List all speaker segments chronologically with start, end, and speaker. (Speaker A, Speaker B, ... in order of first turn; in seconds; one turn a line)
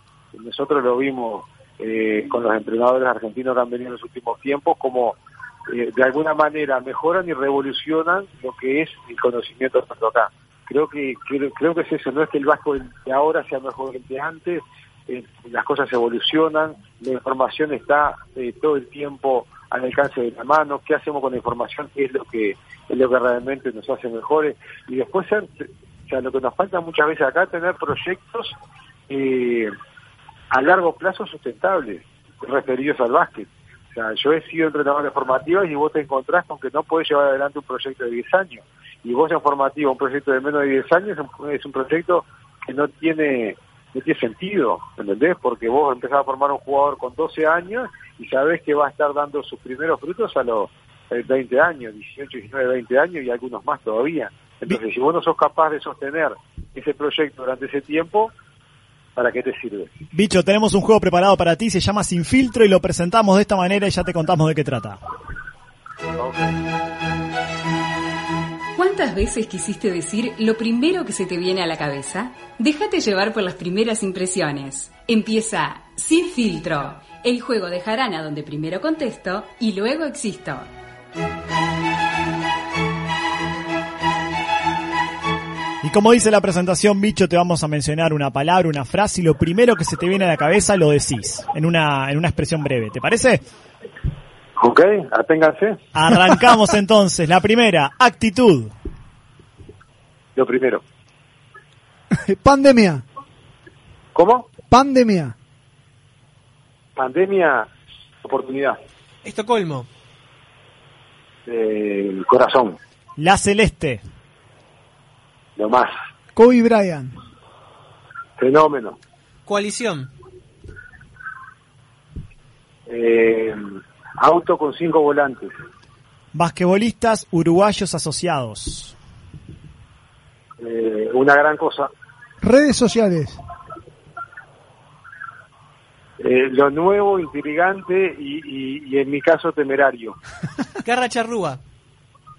Speaker A: 0.3-5.2
Speaker A: 5.7-28.6
Speaker A: 29.1-29.7
Speaker A: 30.5-58.3
Speaker A: 59.1-59.9
Speaker B: 60.1-65.0
Speaker A: 66.2-66.5
Speaker C: 68.8-80.7
Speaker B: 85.8-93.4
Speaker A: 94.6-95.8
Speaker B: 95.9-98.7
Speaker A: 100.3-100.8
Speaker D: 102.1-103.0
Speaker A: 104.1-104.5
Speaker D: 104.7-105.3
Speaker A: 107.0-107.7
Speaker A: 108.2-108.8
Speaker E: 109.2-109.9
Speaker A: 111.5-112.8
Speaker B: 113.2-114.0
Speaker A: 115.5-115.9
Speaker D: 116.3-117.1
Speaker A: 118.4-119.0
Speaker E: 119.5-120.1
Speaker A: 122.9-123.6
Speaker A: 124.2-125.5
Speaker B: 126.3-128.9
Speaker A: 130.6-131.9
Speaker D: 132.4-133.4
Speaker A: 136.2-140.2
Speaker E: 140.8-141.6